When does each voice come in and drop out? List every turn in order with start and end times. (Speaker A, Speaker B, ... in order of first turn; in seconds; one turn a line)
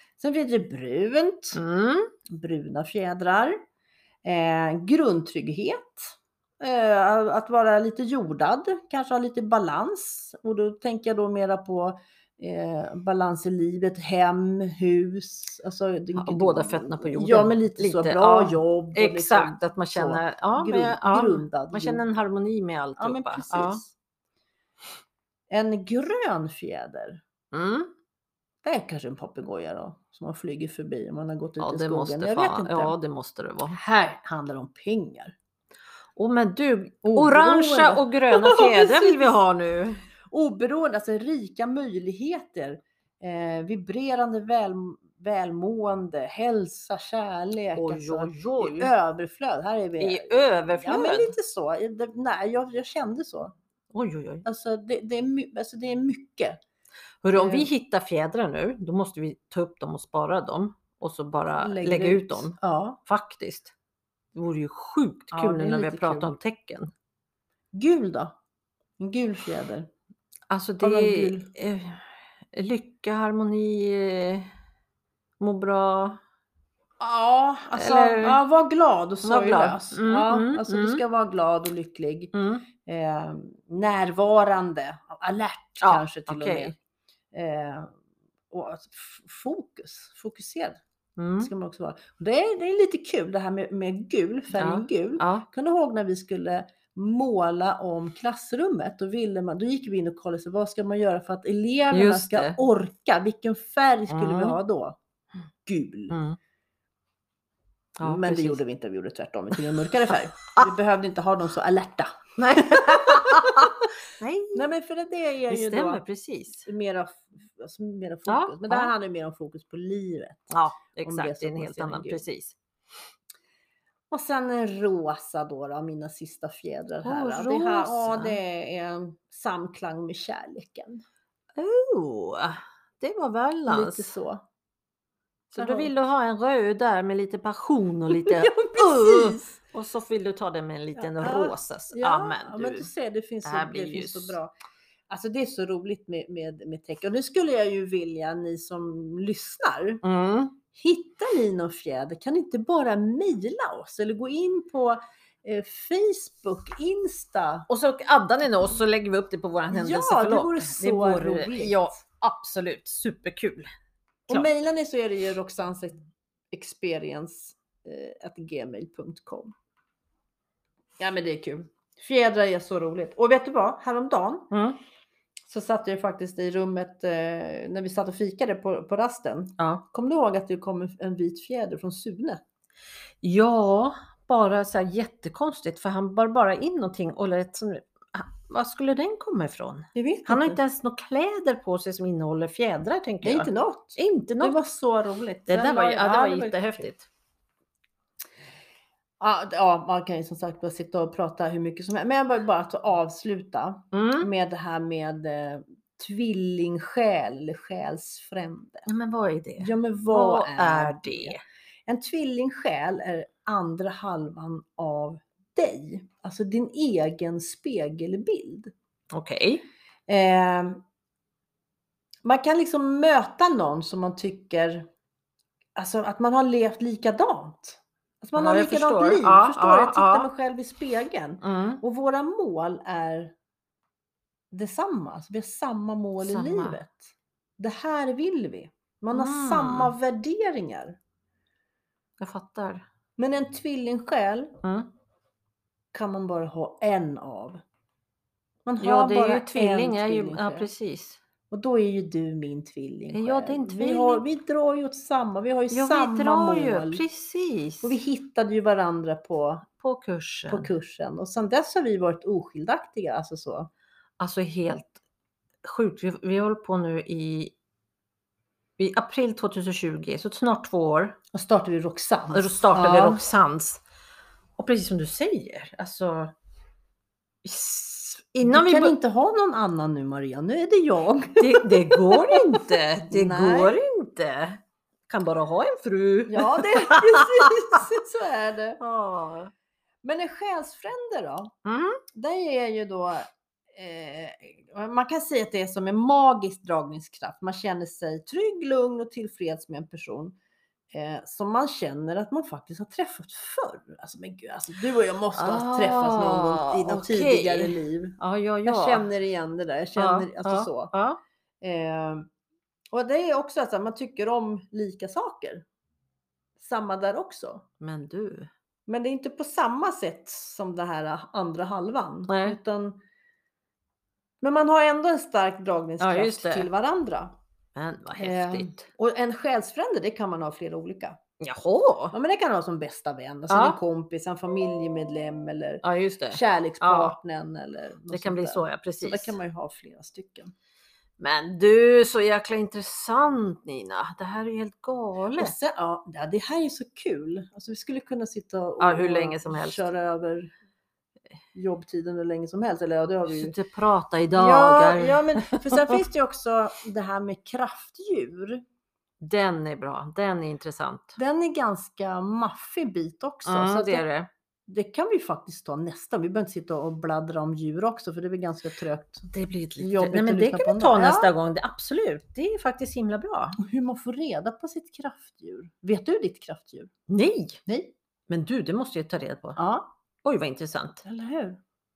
Speaker A: 0.2-1.6
Speaker B: 1.6-2.1
Speaker A: 2.3-3.6
Speaker A: 4.2-22.1
Speaker B: 16.1-23.8
Speaker A: 23.0-23.9
Speaker A: 25.5-27.2
Speaker B: 27.5-27.9
Speaker A: 28.6-32.9
Speaker B: 31.6-33.8
Speaker A: 33.7-35.4
Speaker B: 36.2-40.0
Speaker A: 37.0-39.4
Speaker A: 40.3-53.5
Speaker B: 47.8-48.9
Speaker B: 50.0-51.3
Speaker B: 53.9-54.5
Speaker A: 54.5-56.6
Speaker B: 57.2-62.6
Speaker A: 57.3-57.7
Speaker A: 61.6-63.0
Speaker B: 63.1-63.7
Speaker B: 64.3-66.9
Speaker A: 65.3-66.3
Speaker A: 67.7-68.3
Speaker A: 69.0-69.9
Speaker B: 70.5-74.5
Speaker A: 70.8-71.5
Speaker B: 75.4-76.2
Speaker A: 77.0-86.8
Speaker B: 77.8-78.4
Speaker B: 79.2-81.0
Speaker B: 82.3-82.6
Speaker B: 85.8-86.7
Speaker A: 87.3-87.9
Speaker A: 88.5-90.8
Speaker B: 91.2-91.5
Speaker A: 91.4-105.0
Speaker B: 94.5-95.5
Speaker B: 101.9-102.6
Speaker B: 104.1-104.6
Speaker A: 105.7-106.2
Speaker B: 106.1-106.4
Speaker B: 108.0-108.6
Speaker A: 108.0-113.7
Speaker B: 110.1-110.7
Speaker B: 112.4-114.7
Speaker A: 114.5-116.0
Speaker B: 115.5-116.7
Speaker A: 116.6-120.5
Speaker B: 118.3-118.9
Speaker B: 120.5-122.6
Speaker A: 121.0-122.2
Speaker A: 124.1-131.0
Speaker B: 127.0-128.4
Speaker B: 131.6-134.1
Speaker A: 133.7-134.4
Speaker B: 135.5-142.9
Speaker A: 135.5-135.9
Speaker A: 138.1-139.6
Speaker A: 141.0-144.5
Speaker B: 143.4-144.4
Speaker A: 145.1-150.0
Speaker B: 150.0-150.6
Speaker A: 150.7-157.7
Speaker B: 157.7-163.7
Speaker A: 159.7-162.0
Speaker A: 164.3-166.0
Speaker A: 166.5-169.5
Speaker A: 171.0-174.5
Speaker B: 174.5-174.8
Speaker A: 175.5-182.4
Speaker B: 179.6-179.8
Speaker B: 183.2-194.6
Speaker A: 189.9-190.6
Speaker A: 193.2-196.9
Speaker B: 195.5-197.1
Speaker A: 199.2-208.9
Speaker B: 203.9-204.3
Speaker B: 208.9-211.4
Speaker A: 209.6-218.7
Speaker B: 219.1-219.6
Speaker A: 220.1-220.8
Speaker A: 222.2-224.9
Speaker A: 225.8-233.3
Speaker B: 228.4-230.3
Speaker B: 231.4-231.8
Speaker A: 234.5-241.0
Speaker B: 236.2-236.8
Speaker B: 239.1-239.9
Speaker B: 242.2-242.8
Speaker A: 243.2-244.6
Speaker B: 244.6-244.9
Speaker A: 245.9-247.6
Speaker A: 248.7-250.7
Speaker B: 248.8-251.2
Speaker A: 251.5-257.0
Speaker B: 253.1-254.2
Speaker B: 255.7-258.0
Speaker A: 257.8-259.7
Speaker B: 259.8-260.7
Speaker A: 260.5-263.7
Speaker B: 264.2-265.0
Speaker B: 265.6-267.5
Speaker B: 268.8-271.2
Speaker A: 271.3-273.2
Speaker B: 272.3-273.8
Speaker B: 274.6-276.3
Speaker B: 277.4-278.9
Speaker A: 278.4-283.8
Speaker B: 281.4-287.6
Speaker A: 286.3-288.8
Speaker B: 288.8-289.5
Speaker A: 290.0-291.5
Speaker B: 291.6-292.0
Speaker A: 292.1-300.4
Speaker A: 300.9-310.9
Speaker B: 305.4-309.1
Speaker B: 310.0-311.2
Speaker A: 311.6-312.3
Speaker A: 312.9-315.6
Speaker A: 316.6-317.7
Speaker B: 317.8-318.5
Speaker A: 318.9-323.0
Speaker B: 322.3-322.6
Speaker A: 324.4-327.4
Speaker B: 326.0-326.7
Speaker B: 327.8-328.8
Speaker A: 328.2-331.2
Speaker B: 331.4-332.1
Speaker A: 332.1-340.5
Speaker B: 333.5-333.8
Speaker B: 335.8-337.1
Speaker B: 338.1-339.4
Speaker B: 341.2-345.5
Speaker A: 345.4-350.5
Speaker B: 348.8-349.9
Speaker A: 351.5-353.6
Speaker B: 353.3-355.9
Speaker A: 354.3-358.6
Speaker B: 359.2-361.2
Speaker A: 361.2-364.1
Speaker B: 363.4-364.3
Speaker A: 364.7-371.3
Speaker B: 369.3-373.6
Speaker A: 373.6-376.9
Speaker B: 377.1-377.6
Speaker A: 377.7-377.9
Speaker B: 378.3-379.6
Speaker A: 379.6-379.9
Speaker B: 380.2-381.0
Speaker A: 381.0-381.6